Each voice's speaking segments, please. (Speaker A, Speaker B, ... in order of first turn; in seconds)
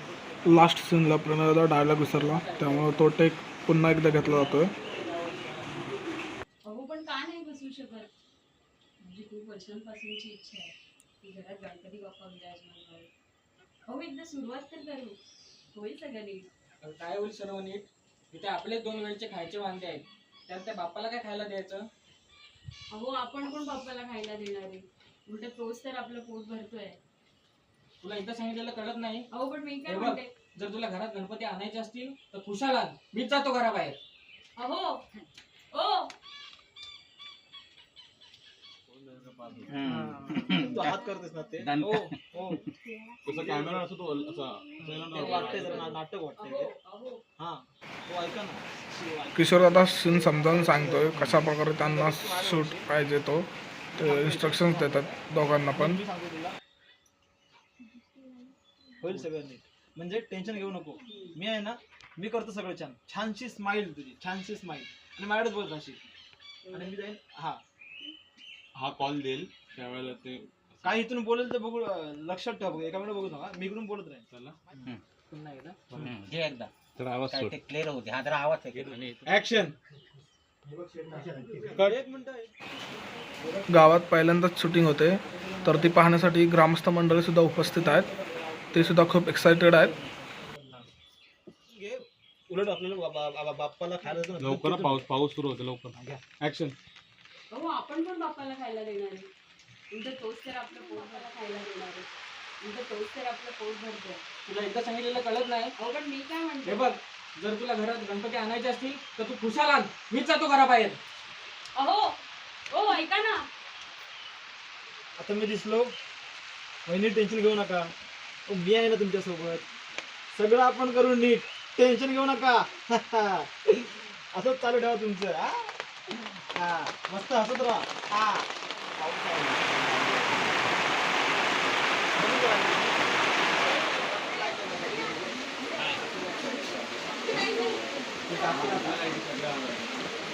Speaker A: 0.4-4.7, 49.4-56.0, 83.7-88.1, 88.7-89.9
Speaker B: 2.1-3.1, 4.1-6.0, 16.8-21.9, 28.0-29.3, 29.9-34.0, 75.3-75.8, 104.5-105.7, 106.6-111.0
Speaker C: 6.7-8.1, 9.0-13.1, 13.9-15.2, 15.7-16.5, 22.9-27.0, 29.3-30.3, 34.6-35.0, 35.7-36.1, 45.0-47.2, 61.0-61.4, 66.7-66.9, 97.5-99.3, 99.9-102.1, 102.6-104.2, 105.8-106.9, 111.8-112.2, 112.7-113.5
Speaker D: 38.9-40.0, 43.2-45.9, 68.7-70.8, 74.3-74.7, 75.9-76.3, 77.0-77.6, 78.7-79.7, 81.7-82.0, 94.4-96.8, 138.5-140.0
Speaker E: 39.7-41.0, 41.6-42.5, 76.0-76.7, 77.3-79.3
Speaker F: 40.1-42.6, 43.4-43.7, 44.8-46.7, 47.4-52.9, 54.0-55.2, 55.7-56.5, 59.0-66.1, 66.7-67.6, 70.8-74.3, 80.6-82.5, 83.4-84.0, 85.3-86.2, 87.6-90.9, 91.7-95.0, 96.0-96.2, 115.2-115.9, 116.8-117.9, 118.5-119.6, 120.3-125.7, 126.5-130.4, 132.1-136.4, 138.3-139.1